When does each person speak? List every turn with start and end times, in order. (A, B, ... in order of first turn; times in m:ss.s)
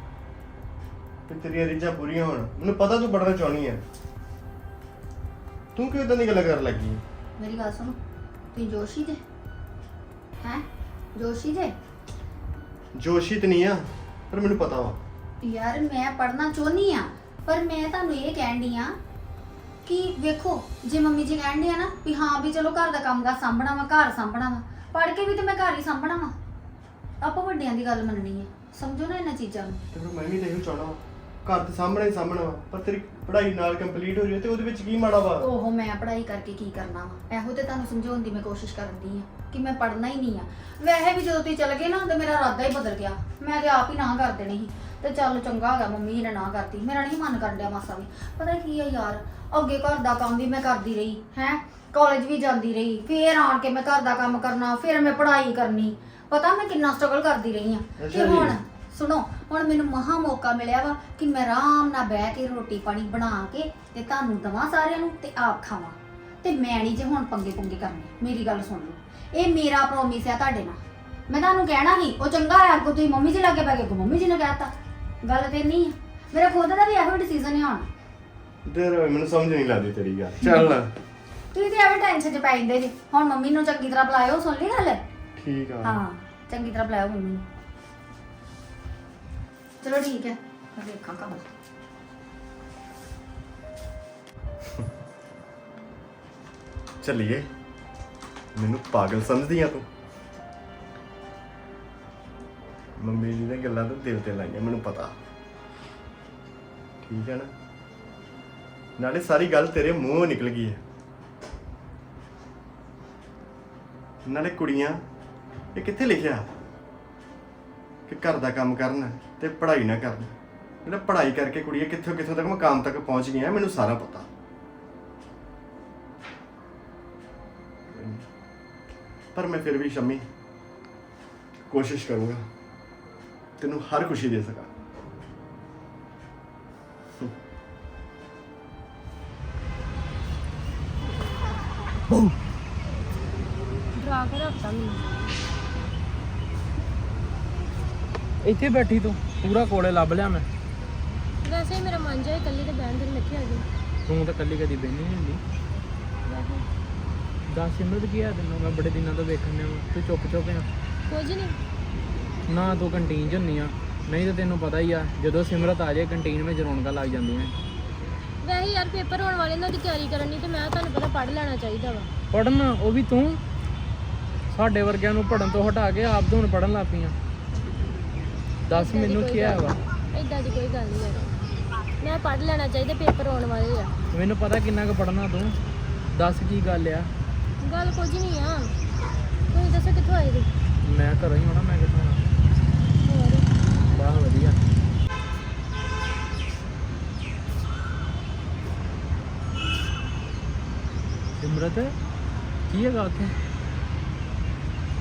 0:01.3-0:03.8 A
0:05.8-0:07.0 A
0:07.4-0:08.0 B
0:08.5-0:09.2 B
0:10.4-0:11.7 B
0:13.0-0:15.0 A
0:15.4-0:19.0 B
0:19.8-0:26.3 B
0:27.2-0:29.8 B
0:29.9-0:35.5 A
0:35.4-1:14.7 B
0:58.0-0:58.6 A
1:15.2-1:17.9 B
1:18.7-1:20.9 A
1:20.5-1:20.7 B
1:21.5-1:25.0 B
1:25.4-1:26.0 A
1:25.8-1:27.4 B
1:29.8-1:31.5 B
1:37.0-1:37.5 A
1:38.6-1:39.9 A
1:43.0-1:45.2 A
1:47.0-1:47.5 A
1:49.0-1:50.8 A
1:54.3-1:55.0 A
1:55.8-1:56.6 A
1:58.1-2:00.3 A
2:00.8-2:04.3 A
2:07.9-2:08.2 A
2:09.3-2:10.2 A
2:11.7-2:12.4 A
2:13.6-2:14.7 A
2:24.0-2:25.3 C
2:28.4-2:30.5 D
2:31.4-2:33.7 C
2:34.1-2:35.4 D
2:36.2-2:36.7 C
2:37.5-2:40.7 D
2:41.1-2:41.6 C
2:42.5-2:47.6 D
2:48.4-2:52.1 C
2:52.3-2:53.4 D
2:54.5-2:57.2 D
2:58.7-2:59.8 D
2:58.7-3:01.3 C
3:02.0-3:04.0 C
3:04.1-3:05.6 D
3:06.1-3:07.1 D
3:07.6-3:08.7 C
3:09.5-3:10.5 C
3:10.8-3:12.2 D
3:13.0-3:13.5 C
3:13.9-3:14.6 D
3:21.4-3:22.0 D
3:22.7-3:23.3 D